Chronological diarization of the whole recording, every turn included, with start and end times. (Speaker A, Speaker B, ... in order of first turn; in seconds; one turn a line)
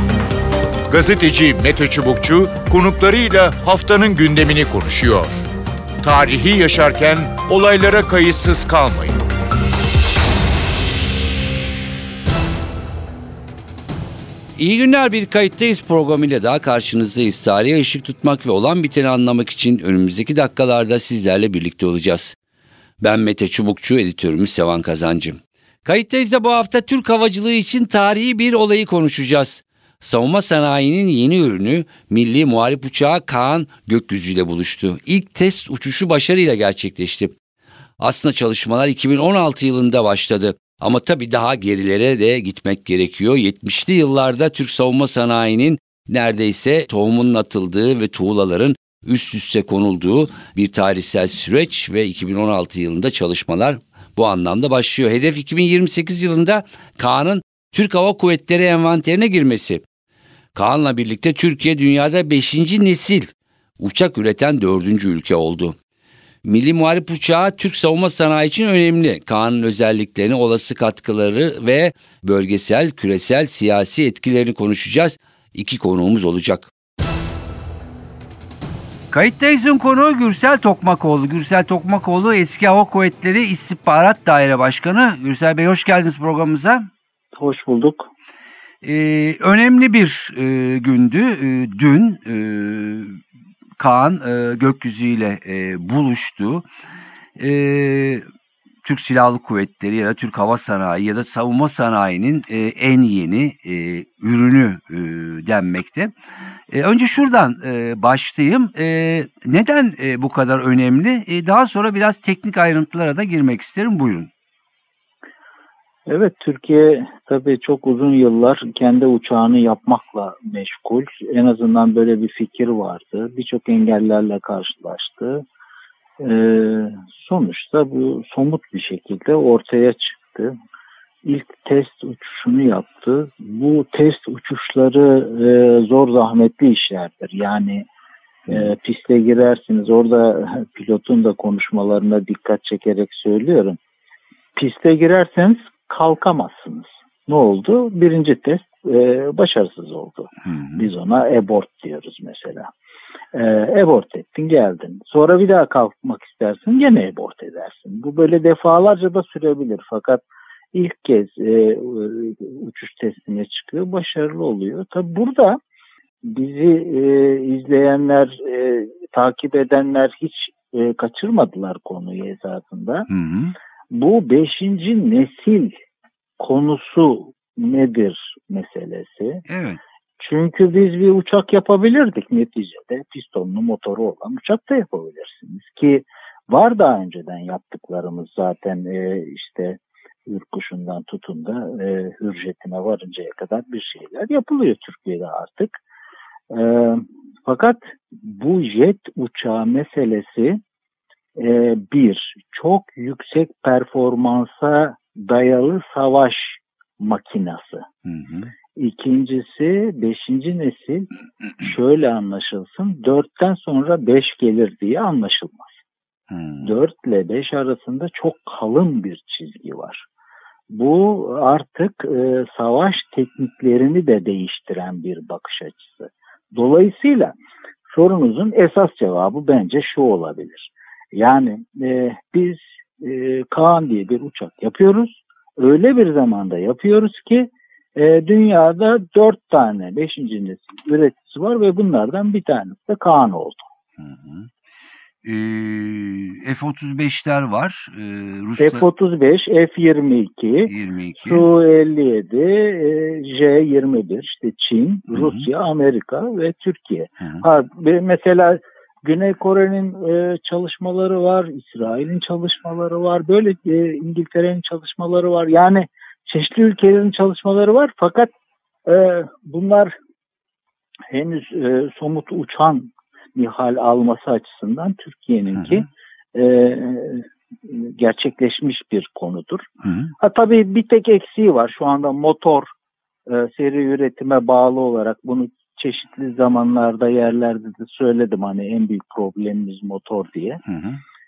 Speaker A: 0.9-5.5
Speaker A: 6.0-9.2
Speaker B: 14.6-22.3
Speaker B: 23.0-37.3
Speaker B: 38.0-59.8
Speaker B: 60.5-65.8
Speaker B: 66.4-76.7
Speaker B: 79.1-86.9
Speaker C: 87.3-88.1
Speaker B: 88.8-93.2
Speaker B: 93.8-96.6
Speaker B: 97.4-98.2
Speaker B: 98.8-106.1
Speaker B: 106.7-114.3
Speaker C: 116.1-125.5
Speaker C: 126.2-130.5
Speaker C: 131.2-137.9
Speaker C: 138.4-143.8
Speaker C: 144.5-152.7
Speaker C: 153.3-160.2
Speaker C: 160.7-165.6
Speaker C: 166.2-173.1
Speaker B: 173.1-173.5
Speaker C: 173.9-175.8
Speaker C: 176.4-179.4
Speaker B: 179.5-179.8
Speaker C: 180.2-195.7
Speaker C: 196.5-200.6
Speaker C: 201.3-207.9
Speaker B: 208.1-208.5
Speaker C: 208.8-211.1
Speaker C: 211.6-215.7
Speaker B: 216.3-216.7
Speaker C: 216.6-220.1
Speaker C: 220.7-227.3
Speaker C: 227.9-243.6
Speaker B: 244.0-244.5
Speaker B: 245.2-248.8
Speaker C: 248.6-268.3
Speaker B: 250.7-251.4
Speaker B: 255.1-255.4
Speaker C: 268.9-270.0
Speaker C: 271.1-282.7
Speaker B: 279.8-280.1
Speaker C: 283.3-290.6
Speaker B: 290.7-291.0